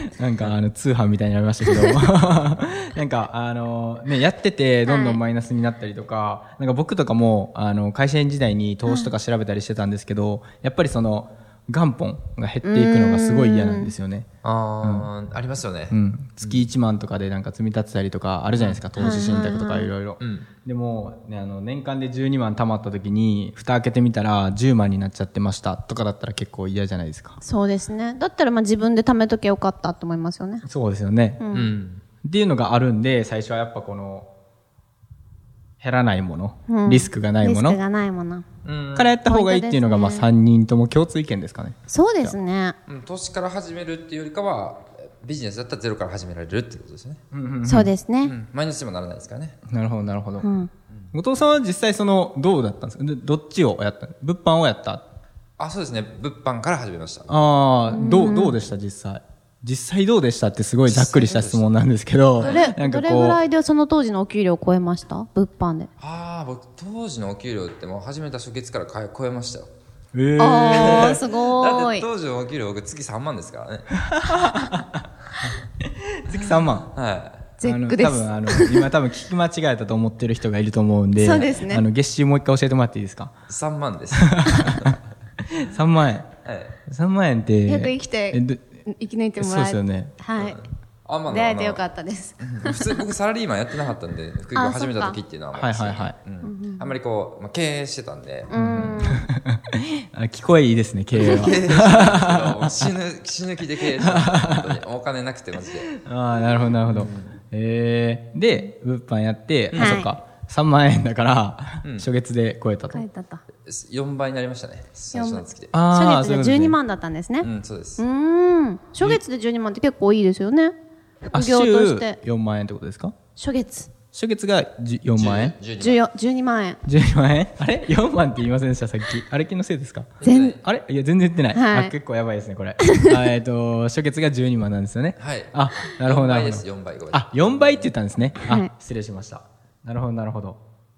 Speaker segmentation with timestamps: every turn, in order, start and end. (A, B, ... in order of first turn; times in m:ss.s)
0:00.2-0:14.3 A
0:01.7-0:02.0 B
0:04.8-0:05.2 B
0:08.8-0:09.1 B
0:12.6-0:13.9 B
0:14.4-0:16.6 C
0:14.8-0:15.1 A
0:15.9-0:27.4 A
0:18.5-0:19.4 C
0:19.0-0:19.9 B
0:20.2-0:20.5 C
0:27.4-0:30.6 B
0:30.6-0:31.4 A
0:31.4-0:31.7 B
0:31.5-0:32.0 C
0:32.2-0:34.3 A
0:35.8-0:37.8 A
0:36.7-0:38.4 B
0:38.6-0:39.2 C
0:39.0-0:42.4 A
0:39.2-0:40.3 B
0:41.9-0:42.8 B
0:42.9-0:47.2 C
0:47.3-0:47.9 A
0:47.6-0:48.3 B
0:48.2-0:49.6 C
0:49.7-0:50.5 A
0:50.4-0:50.7 B
0:51.1-0:55.0 A
0:55.6-0:57.4 C
0:57.3-1:03.4 A
0:57.9-0:58.6 B
1:00.8-1:01.6 C
1:02.4-1:02.6 C
1:02.4-1:05.9 B
1:06.0-1:09.7 C
1:10.1-1:11.2 A
1:10.4-1:12.1 B
1:10.6-1:13.9 C
1:14.0-1:15.0 A
1:15.8-1:16.9 A
1:16.3-1:17.4 C
1:17.6-1:18.9 B
1:17.6-1:23.3 A
1:21.2-1:21.8 B
1:23.5-1:25.0 C
1:24.2-1:25.0 A
1:25.5-1:26.3 A
1:26.4-1:26.7 C
1:26.9-1:28.6 A
1:27.6-1:30.6 B
1:29.4-1:30.1 A
1:30.4-1:31.8 C
1:31.3-1:33.0 B
1:32.4-1:39.0 C
1:34.5-1:35.2 B
1:35.5-1:36.2 A
1:36.4-1:36.9 B
1:38.5-1:39.3 B
1:38.5-1:42.9 A
1:41.2-1:45.9 C
1:43.9-1:44.8 A
1:45.9-1:53.0 A
1:46.8-1:47.3 C
1:49.7-1:50.0 C
1:49.8-1:50.1 B
1:52.9-1:53.4 B
1:53.6-1:55.7 C
1:55.1-2:00.7 B
1:55.7-1:56.8 A
1:57.4-1:58.0 C
2:01.3-2:03.1 A
2:01.3-2:02.2 B
2:03.4-2:03.9 B
2:04.1-2:05.6 A
2:05.2-2:06.0 C
2:05.8-2:06.8 B
2:06.8-2:20.6 A
2:10.2-2:10.6 C
2:10.2-2:10.6 B
2:11.5-2:12.0 B
2:12.8-2:13.1 B
2:15.2-2:18.3 C
2:18.4-2:18.7 B